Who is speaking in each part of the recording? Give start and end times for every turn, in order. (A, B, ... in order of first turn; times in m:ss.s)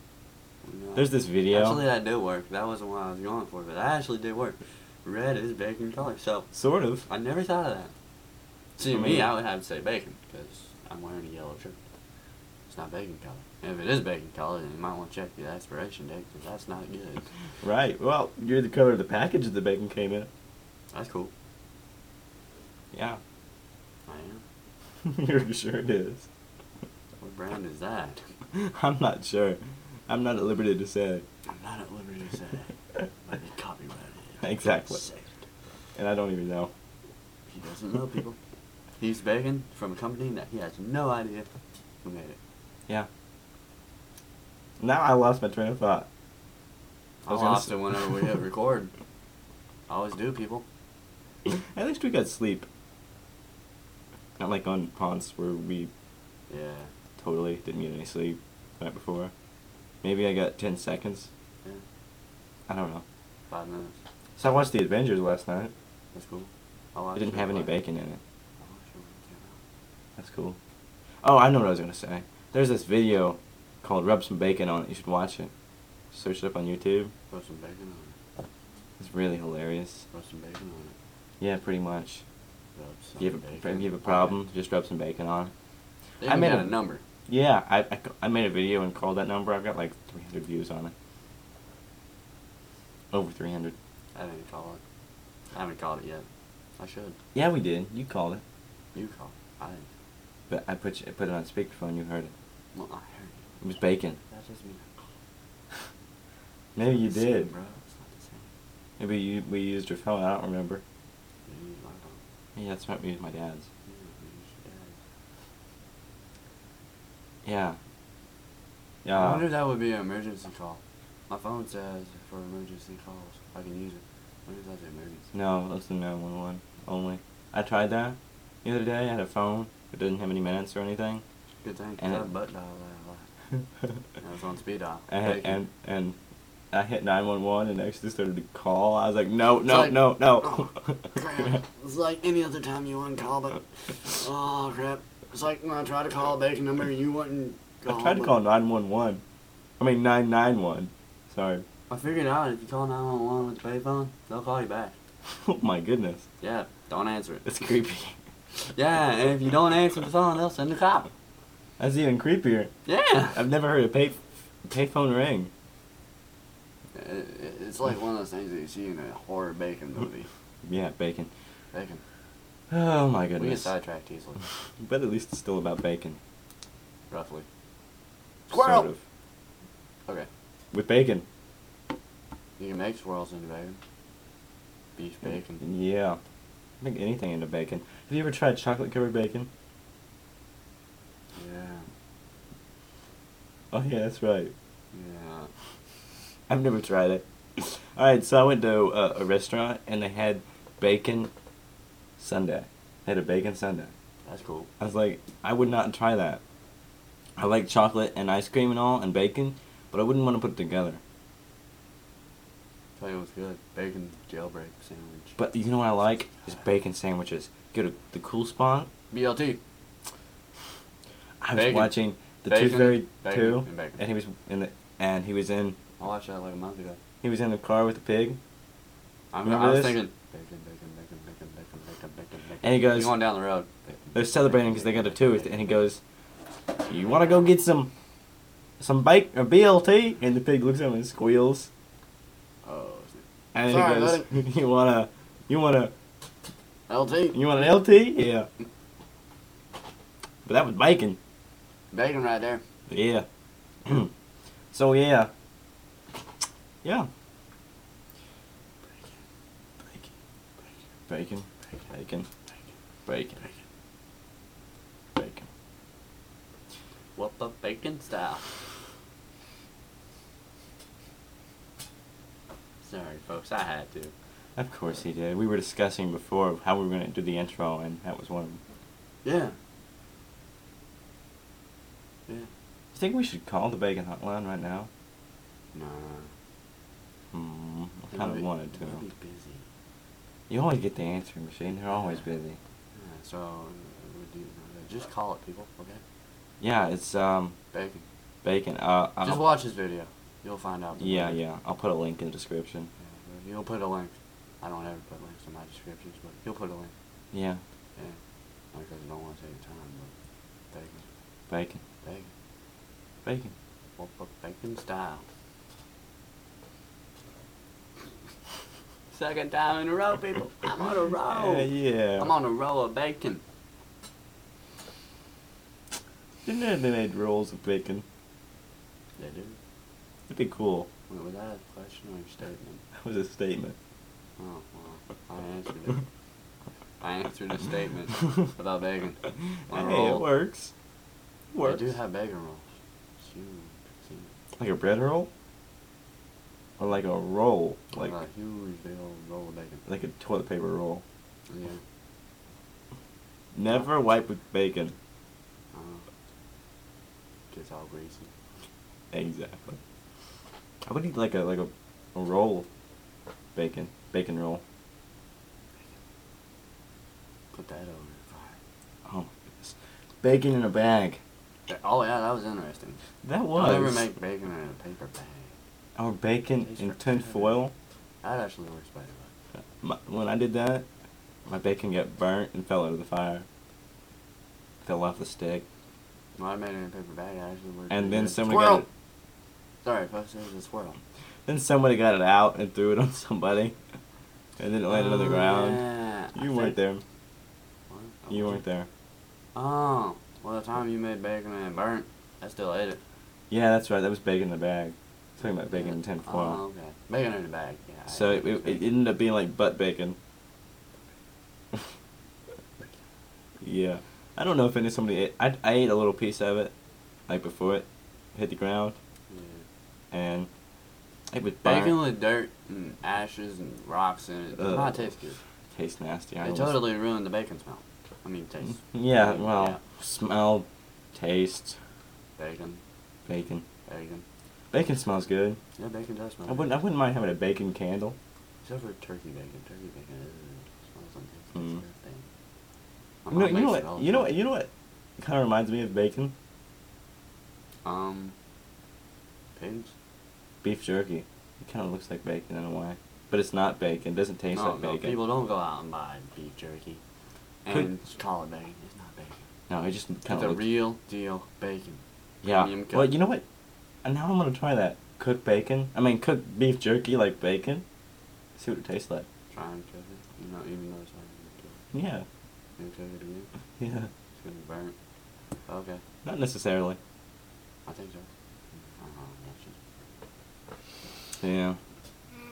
0:00.6-0:06.5 A
0:01.0-0:01.8 B
0:06.5-0:07.1 B
0:07.1-0:07.9 A
0:08.8-0:11.8 A
0:08.8-0:09.3 B
0:12.7-0:17.3 A
0:17.6-0:20.3 B
0:20.9-0:21.3 A
0:22.9-0:23.2 B
0:24.1-0:24.4 A
0:25.0-0:26.3 B
0:27.2-0:28.2 A
0:28.5-0:31.2 B
0:31.5-0:32.7 A
0:33.2-0:35.4 A
0:34.4-0:35.0 B
0:35.9-0:36.7 B
0:37.5-0:38.4 A
0:39.0-0:41.5 A
0:42.0-0:42.4 A
0:44.8-0:46.1 B
0:47.2-0:48.9 A
0:47.3-0:48.2 B
0:49.9-0:50.6 A
0:51.4-0:52.7 B
0:54.4-0:55.9 B
0:56.5-0:56.9 A
0:57.2-0:59.3 B
1:00.0-1:01.3 B
1:02.7-1:03.0 B
1:03.5-1:04.0 A
1:04.4-1:05.7 B
1:06.1-1:07.7 A
1:07.1-1:08.2 B
1:08.6-1:09.5 A
1:10.2-1:10.6 B
1:11.2-1:15.5 B
1:16.1-1:17.1 B
1:17.3-1:18.1 A
1:19.0-1:20.0 B
1:20.1-1:20.9 A
1:21.4-1:22.2 B
1:22.8-1:24.4 A
1:23.2-1:25.5 B
1:26.2-1:27.0 A
1:26.2-1:26.7 B
1:27.3-1:30.9 B
1:33.1-1:33.7 B
1:34.1-1:34.8 A
1:35.5-1:36.2 A
1:36.8-1:37.2 A
1:37.3-1:38.4 B
1:38.9-1:39.9 A
1:40.5-1:42.3 B
1:42.7-1:43.6 A
1:43.6-1:44.2 B
1:44.2-1:45.1 A
1:46.8-1:47.5 B
1:46.8-1:48.5 A
1:49.0-1:50.8 B
1:51.5-1:52.2 A
1:52.6-1:53.7 B
1:53.9-1:55.0 A
1:57.4-1:57.8 B
1:59.0-1:59.5 B
1:59.1-2:05.3 A
2:05.3-2:11.2 B
2:11.6-2:13.2 A
2:12.0-2:12.2 B
2:14.2-2:15.6 A
2:15.1-2:16.2 B
2:16.7-2:21.6 B
2:19.6-2:28.3 A
2:27.8-2:29.2 B
2:29.8-2:31.6 B
2:31.9-2:34.9 A
2:35.4-2:36.2 B
2:36.4-2:37.6 A
2:37.4-2:38.2 B
2:38.7-2:41.1 A
2:41.8-2:42.7 B
2:42.8-2:43.4 A
2:43.3-2:45.5 B
2:46.9-2:50.3 A
2:50.6-2:51.3 B
2:51.7-2:52.0 A
2:52.7-2:53.7 B
2:53.4-2:54.4 A
2:54.8-2:56.2 B
2:57.1-2:57.4 A
2:58.5-2:58.9 A
2:58.5-2:59.0 B
3:00.7-3:01.2 B
3:02.6-3:03.8 A
3:05.0-3:05.6 A
3:05.6-3:06.2 B
3:06.8-3:09.5 B
3:11.3-3:11.9 A
3:13.7-3:14.5 B
3:14.9-3:15.5 A
3:16.5-3:21.3 B
3:22.2-3:23.9 B
3:24.2-3:24.7 A
3:24.8-3:26.4 B
3:27.4-3:31.0 B
3:33.0-3:35.4 A
3:35.4-3:38.9 B
3:39.1-3:39.6 A
3:41.4-3:45.8 B
3:41.5-3:41.9 A
3:42.4-3:44.0 A
3:46.0-3:47.0 A
3:47.2-3:48.4 B
3:49.3-3:55.8 A
3:49.4-3:50.0 B
3:52.6-3:53.1 B
3:54.1-3:56.0 B
3:56.9-3:57.9 B
3:58.8-4:01.7 B
4:02.6-4:04.2 A
4:03.5-4:05.9 B
4:06.9-4:07.7 A
4:07.3-4:08.5 B
4:10.4-4:11.2 B
4:11.9-4:12.6 A
4:12.9-4:13.2 B
4:13.8-4:14.1 B
4:14.7-4:15.3 B
4:19.8-4:20.1 B
4:21.1-4:22.3 B
4:23.1-4:23.4 B
4:25.1-4:25.5 B
4:27.2-4:28.6 A
4:32.8-4:34.1 A
4:34.6-4:38.6 B
4:39.2-4:39.5 A
4:42.9-4:44.9 B
4:45.7-4:46.3 A
4:47.3-4:49.0 B
4:48.1-4:49.6 A
4:50.5-4:52.6 B
4:51.9-4:52.2 A
4:52.9-4:56.0 A
4:56.6-4:57.6 B
4:57.7-4:58.0 A
4:58.4-4:59.5 B
4:59.2-5:01.4 A
5:01.0-5:02.9 B
5:03.2-5:06.9 A
5:07.3-5:07.6 B
5:08.7-5:10.1 A
5:10.7-5:11.0 A
5:11.5-5:11.8 B
5:12.0-5:12.3 A
5:13.2-5:13.5 B
5:14.0-5:15.2 A
5:19.1-5:23.4 A
5:21.2-5:22.3 B
5:26.4-5:28.0 B
5:29.2-5:29.6 A
5:30.3-5:30.9 B
5:31.1-5:32.8 A
5:33.0-5:33.7 B
5:34.4-5:36.0 A
5:37.0-5:40.2 A
5:39.7-5:40.7 B
5:41.5-5:42.0 B
5:41.6-5:42.6 A
5:43.2-5:44.3 A
5:44.6-5:45.3 B
5:46.8-5:48.2 B
5:47.9-5:49.8 A
5:49.9-5:51.0 B
5:51.5-5:51.8 A
5:53.5-5:54.9 B
5:55.7-5:56.1 A
5:57.5-5:58.3 A
5:59.1-5:59.8 B
6:00.8-6:02.6 B
6:03.5-6:04.6 B
6:07.5-6:08.6 A
6:09.0-6:11.2 B
6:11.7-6:13.0 A
6:13.2-6:14.1 B
6:13.5-6:15.5 A
6:16.0-6:17.7 B
6:16.6-6:17.6 A
6:18.2-6:19.3 A
6:19.8-6:20.8 B
6:21.5-6:23.4 B
6:24.8-6:25.6 B
6:26.4-6:28.8 A
6:27.9-6:28.8 B
6:29.8-6:31.0 A
6:31.5-6:33.8 B
6:34.6-6:37.0 B
6:34.9-6:36.7 A
6:37.9-6:38.6 A
6:38.3-6:38.9 B
6:39.5-6:43.0 A
6:43.5-6:46.6 B
6:45.7-6:48.9 A
6:48.1-6:50.2 B
6:53.6-6:56.7 B
6:57.3-6:59.0 B
6:59.3-6:59.6 A
7:00.1-7:00.5 B
7:01.3-7:02.0 B
7:01.6-7:05.4 A
7:04.6-7:05.0 B
7:05.7-7:06.9 B
7:06.4-7:09.8 A
7:08.8-7:11.8 B
7:12.4-7:12.8 A
7:13.3-7:13.7 B
7:13.9-7:14.2 A
7:14.7-7:15.6 B
7:15.8-7:16.8 A
7:16.5-7:18.2 B
7:18.6-7:22.2 A
7:21.5-7:21.8 B
7:23.2-7:24.3 A
7:23.3-7:26.3 B
7:27.8-7:28.3 A
7:29.6-7:29.9 A
7:30.6-7:35.2 B
7:34.5-7:37.0 A
7:37.6-7:39.4 A
7:39.7-7:40.7 B
7:40.2-7:43.1 A
7:42.4-7:43.4 B
7:44.0-7:47.8 B
7:48.6-7:49.2 B
7:49.5-7:51.8 A
7:51.9-7:52.2 B
7:52.8-7:53.5 A
7:53.8-7:54.1 B
7:54.4-7:54.9 A
7:55.7-7:56.0 A
7:56.2-7:57.0 B
7:57.8-7:58.3 A
7:58.8-7:59.8 A
8:01.4-8:01.8 B